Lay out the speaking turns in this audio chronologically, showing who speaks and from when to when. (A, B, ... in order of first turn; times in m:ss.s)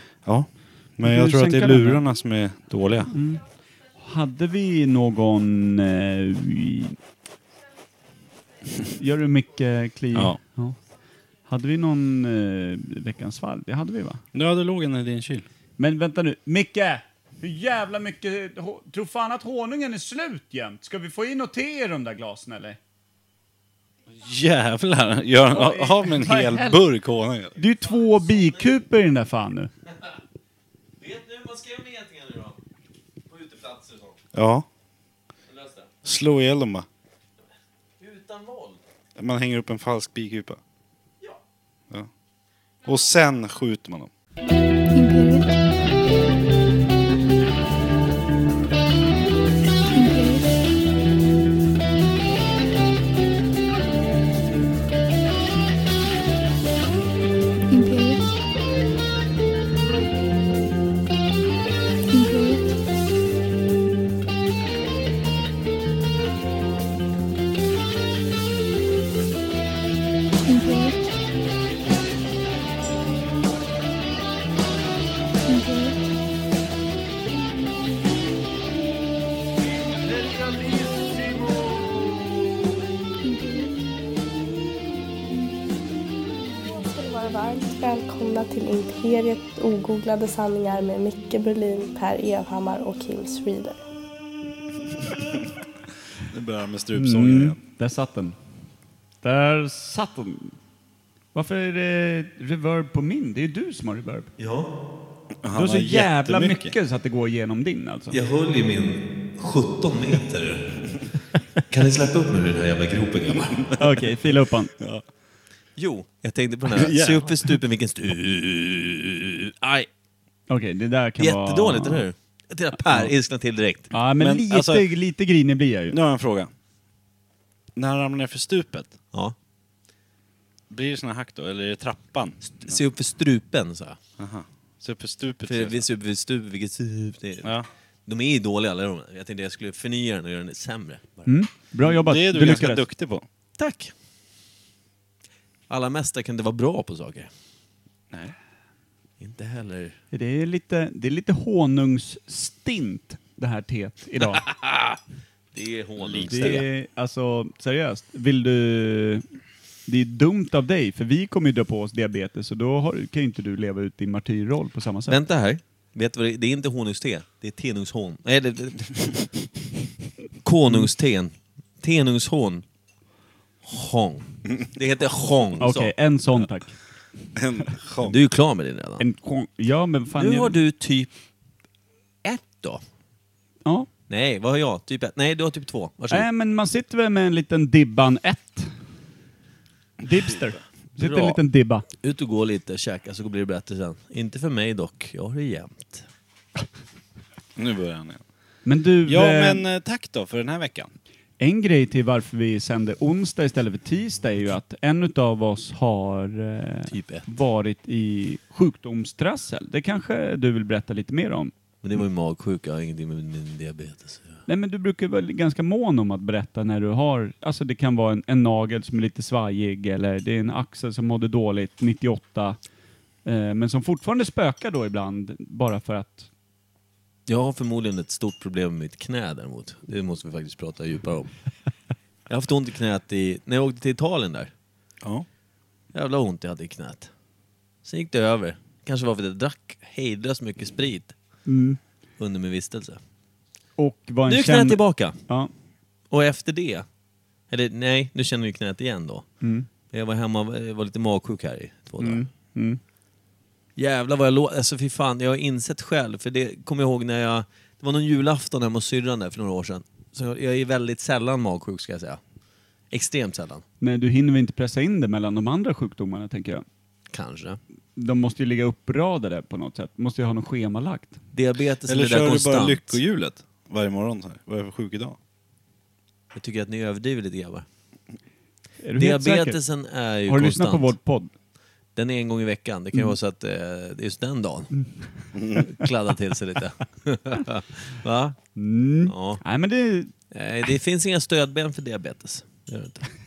0:00.3-0:03.1 A
0:01.1-0:02.0 B
0:03.1-0:03.4 B
0:04.0-0:07.0 B
0:09.0-0:10.8 B
0:11.5-0:14.2 B
0:14.3-0:15.5 A
0:15.8-0:22.8 B
0:24.2-0:27.5 A
0:25.5-0:26.8 B
0:27.6-0:29.7 B
0:28.2-0:28.5 C
0:31.0-0:32.6 C
0:33.3-0:34.2 C
0:34.3-0:34.7 A
0:35.5-0:35.9 C
0:36.0-0:36.9 A
0:38.0-0:38.8 C
0:39.2-0:40.6 A
0:42.8-0:44.1 A
0:44.9-0:45.6 D
0:49.9-0:50.6 D
0:57.7-0:58.4 D
1:02.1-1:02.7 D
1:10.5-1:11.1 D
1:15.5-1:16.1 D
1:23.2-1:23.8 D
1:26.7-1:33.8 E
1:36.3-1:37.6 A
1:37.0-1:38.4 B
1:39.2-1:40.5 B
1:41.3-1:44.3 B
1:44.4-1:44.7 C
1:45.4-1:46.7 A
1:45.5-1:48.2 B
1:48.1-1:50.6 C
1:51.7-1:53.8 C
1:53.5-1:53.8 A
1:53.8-1:54.7 B
1:55.8-1:59.9 C
1:56.7-1:57.5 A
2:00.5-2:02.0 B
2:01.2-2:03.9 C
2:03.9-2:06.0 B
2:04.2-2:04.9 A
2:05.9-2:06.5 A
2:07.8-2:09.0 A
2:10.7-2:12.8 A
2:12.6-2:14.0 C
2:14.2-2:15.8 A
2:15.5-2:17.6 C
2:18.1-2:21.3 C
2:21.3-2:22.8 B
2:21.9-2:23.2 A
2:23.6-2:23.9 C
2:25.7-2:27.3 C
2:29.2-2:30.0 C
2:30.1-2:34.4 B
2:34.2-2:35.0 C
2:35.5-2:36.7 C
2:36.0-2:36.6 A
2:36.3-2:39.2 B
2:39.9-2:45.2 B
2:45.1-2:49.3 C
2:50.4-2:52.6 C
2:53.6-2:55.9 C
2:55.6-2:56.8 B
2:57.4-2:58.2 A
2:58.0-2:59.0 C
2:59.0-3:00.6 B
3:00.2-3:01.1 C
3:02.2-3:02.8 C
3:04.1-3:06.3 C
3:06.1-3:08.7 B
3:10.0-3:11.9 B
3:11.0-3:11.4 C
3:12.0-3:16.1 C
3:17.6-3:18.2 A
3:18.6-3:19.6 B
3:19.1-3:20.9 A
3:21.4-3:31.5 B
3:26.9-3:27.3 C
3:31.8-3:34.4 C
3:34.5-3:42.6 B
3:43.2-3:46.3 B
3:47.3-3:51.3 C
3:52.3-3:54.5 C
3:55.9-3:57.1 C
3:57.8-4:01.2 C
4:01.5-4:01.8 B
4:02.2-4:03.0 C
4:03.8-4:05.5 B
4:04.3-4:05.2 C
4:06.1-4:06.9 C
4:07.5-4:09.3 C
4:09.9-4:12.3 C
4:12.0-4:12.8 B
4:13.8-4:22.2 C
4:22.9-4:23.6 C
4:23.8-4:26.6 B
4:27.1-4:27.6 C
4:28.0-4:31.2 B
4:31.3-4:33.0 C
4:31.9-4:35.2 A
4:36.3-4:37.7 C
4:38.8-4:39.6 B
4:39.0-4:41.0 C
4:40.3-4:41.3 B
4:42.0-4:44.7 C
4:45.4-4:45.7 A
4:45.5-4:48.4 C
4:48.6-4:50.1 B
4:49.1-4:49.4 C
4:50.3-4:53.1 C